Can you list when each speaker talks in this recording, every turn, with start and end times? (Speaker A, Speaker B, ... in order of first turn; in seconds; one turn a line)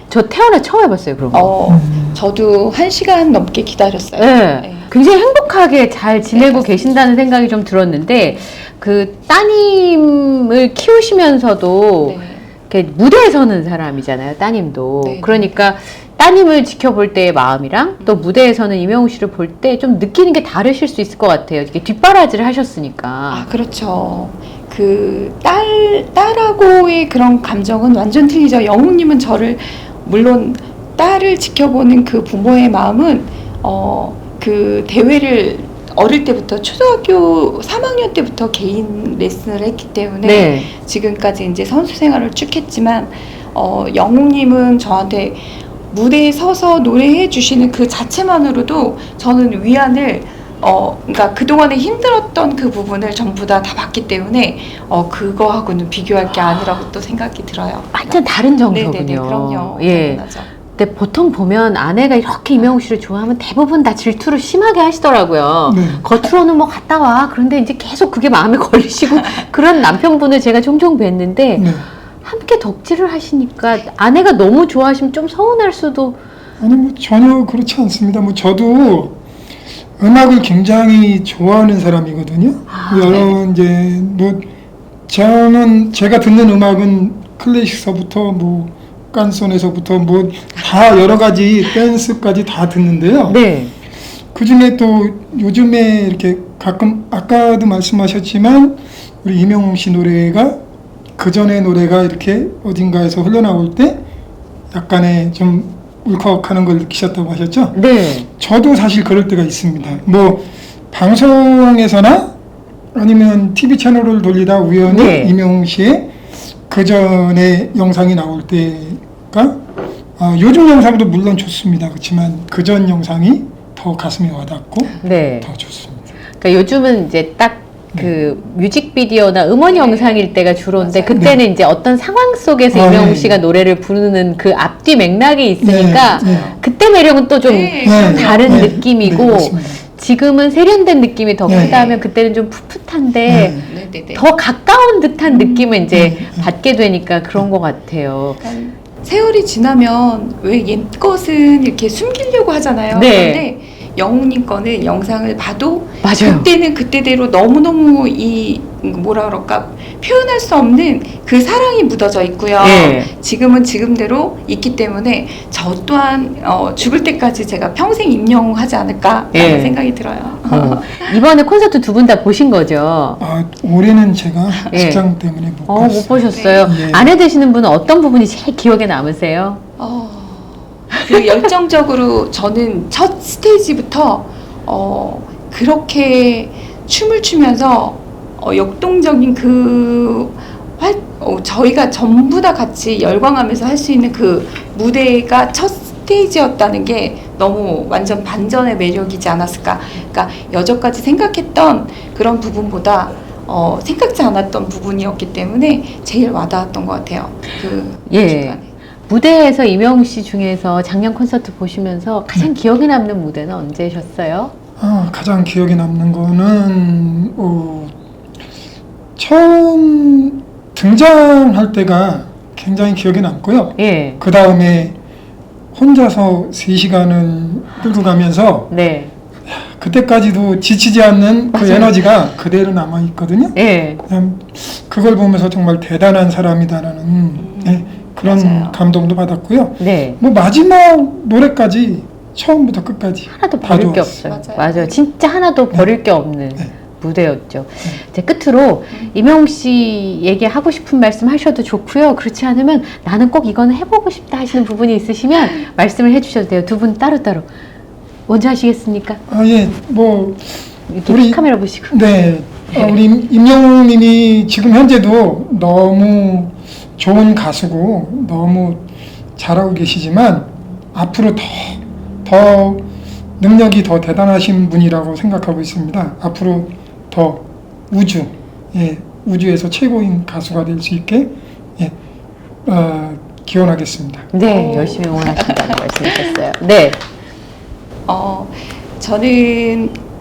Speaker A: 0.1-1.5
Speaker B: 1.3-4.9
Speaker C: 1.7-2.2
Speaker A: 4.2-12.2
Speaker B: 6.3-7.1
Speaker B: 8.2-8.4
Speaker B: 12.0-12.5
Speaker A: 12.7-23.4
Speaker B: 15.0-15.5
Speaker B: 18.0-18.3
Speaker B: 23.3-58.1
Speaker A: 40.2-40.7
Speaker A: 57.9-71.7
Speaker B: 58.7-60.5
Speaker C: 65.7-66.0
Speaker C: 71.5-71.8
Speaker A: 72.2-76.2
Speaker C: 76.6-79.2
Speaker C: 80.0-84.5
Speaker A: 82.7-83.3
Speaker C: 85.1-93.4
Speaker A: 93.3-93.7
Speaker C: 94.3-100.6
Speaker C: 101.2-104.0
Speaker C: 104.7-107.8
Speaker A: 107.7-108.3
Speaker C: 108.3-112.3
Speaker C: 112.9-116.1
Speaker A: 114.9-115.3
Speaker C: 116.7-119.6
Speaker C: 120.2-126.0
Speaker A: 125.0-125.5
Speaker A: 126.4-143.6
Speaker B: 129.7-131.3
Speaker C: 131.1-131.4
Speaker C: 132.7-133.4
Speaker C: 135.6-136.5
Speaker B: 136.0-136.6
Speaker B: 137.4-138.7
Speaker C: 137.8-139.8
Speaker B: 141.4-142.1
Speaker C: 141.5-141.8
Speaker C: 143.3-143.6
Speaker B: 143.5-144.3
Speaker A: 144.1-148.4
Speaker B: 145.3-145.9
Speaker C: 145.9-146.5
Speaker B: 148.4-171.2
Speaker A: 152.9-153.4
Speaker A: 156.0-156.5
Speaker A: 162.6-163.1
Speaker A: 169.3-169.8
Speaker A: 170.4-173.2
Speaker C: 173.2-177.1
Speaker B: 174.6-174.8
Speaker A: 174.7-175.0
Speaker A: 175.7-179.6
Speaker B: 176.3-176.7
Speaker B: 179.8-208.7
Speaker A: 208.1-214.5
Speaker C: 214.8-217.9
Speaker C: 219.2-225.0
Speaker A: 223.8-224.2
Speaker C: 225.7-228.7
Speaker A: 228.7-229.1
Speaker C: 229.5-244.1
Speaker A: 231.5-232.0
Speaker A: 233.5-234.0
Speaker B: 237.4-238.8
Speaker A: 239.8-240.2
Speaker A: 243.3-257.5
Speaker B: 244.2-245.0
Speaker A: 258.3-259.2
Speaker C: 259.3-268.8
Speaker A: 260.9-262.2
Speaker C: 269.4-272.9
Speaker C: 273.4-281.9
Speaker C: 282.6-284.3
Speaker A: 284.3-287.0
Speaker B: 284.5-286.2
Speaker B: 288.1-290.0